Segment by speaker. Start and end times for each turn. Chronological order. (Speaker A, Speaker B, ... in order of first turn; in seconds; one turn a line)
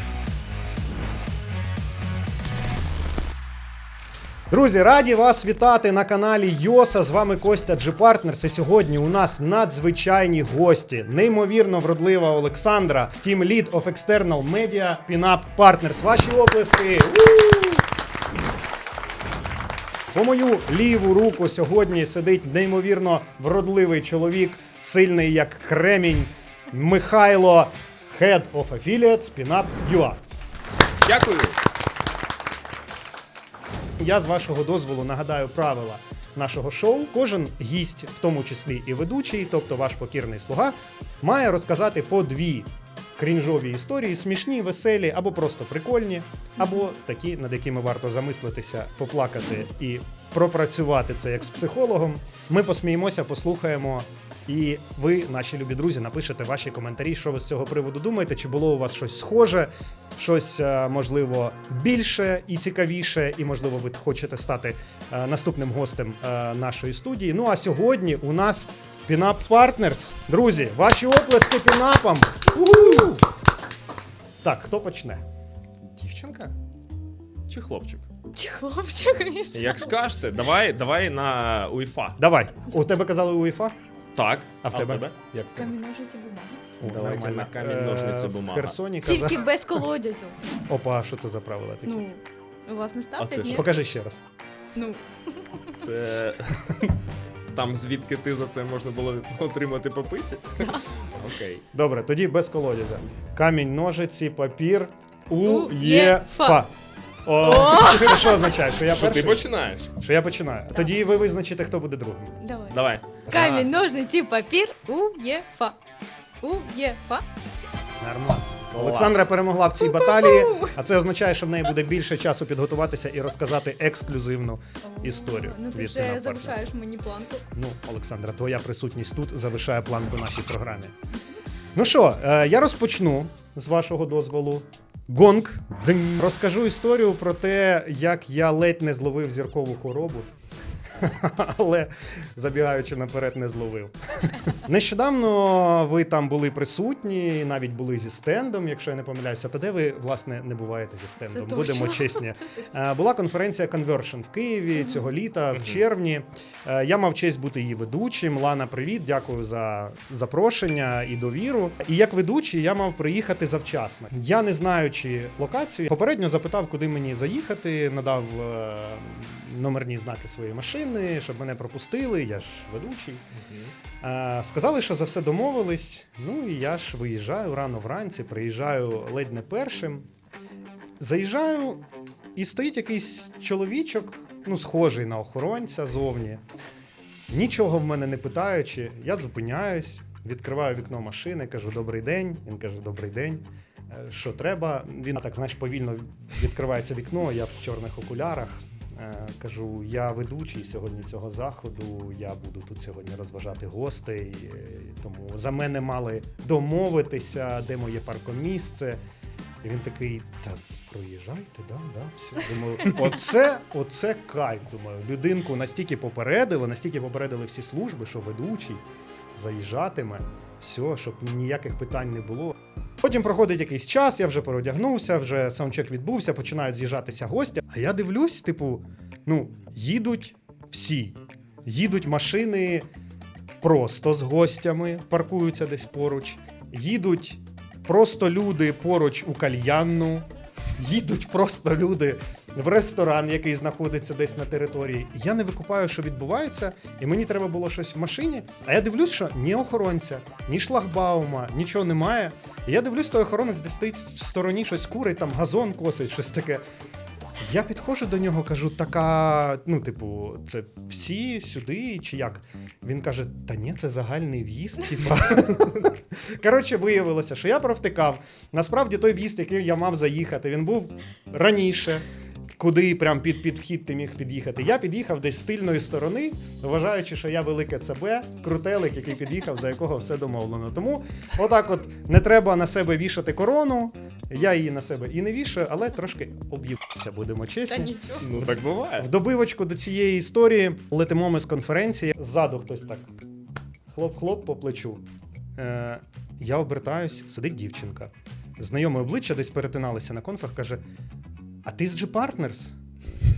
Speaker A: 4.5-17.8
Speaker A: 20.1-30.2
Speaker B: 31.0-31.6
Speaker A: 34.0-72.5
Speaker B: 72.5-73.2
Speaker A: 74.4-75.2
Speaker B: 75.8-76.5
Speaker B: 77.5-78.1
Speaker C: 78.3-79.9
Speaker B: 79.5-82.2
Speaker A: 82.2-83.7
Speaker B: 84.1-85.1
Speaker A: 84.6-85.7
Speaker C: 85.5-86.6
Speaker A: 86.8-89.5
Speaker B: 86.8-88.8
Speaker C: 89.0-90.4
Speaker A: 90.7-92.0
Speaker C: 91.8-93.7
Speaker B: 93.2-93.7
Speaker A: 93.5-94.2
Speaker C: 94.7-95.8
Speaker B: 95.8-96.9
Speaker B: 97.5-101.6
Speaker A: 101.7-106.7
Speaker C: 105.4-106.6
Speaker A: 107.2-112.4
Speaker C: 107.4-108.5
Speaker B: 108.8-109.9
Speaker C: 112.4-115.8
Speaker B: 112.7-113.7
Speaker C: 116.4-117.2
Speaker A: 118.0-126.7
Speaker B: 118.7-119.2
Speaker C: 119.8-120.8
Speaker C: 124.8-127.4
Speaker A: 127.5-130.9
Speaker A: 131.7-140.3
Speaker A: 140.9-173.2
Speaker C: 151.3-152.7
Speaker C: 154.8-155.1
Speaker B: 155.5-155.8
Speaker B: 173.3-173.7
Speaker A: 174.0-180.1
Speaker A: 181.0-181.8
Speaker A: 182.3-186.4
Speaker A: 187.3-209.0
Speaker A: 209.6-218.8
Speaker A: 219.3-232.9
Speaker A: 233.6-240.2
Speaker A: 240.8-256.6
Speaker A: 257.4-272.1
Speaker B: 265.0-265.9
Speaker A: 272.6-293.1
Speaker C: 287.7-288.3
Speaker B: 288.2-289.1
Speaker A: 293.9-295.0
Speaker A: 295.6-300.8
Speaker A: 301.6-302.7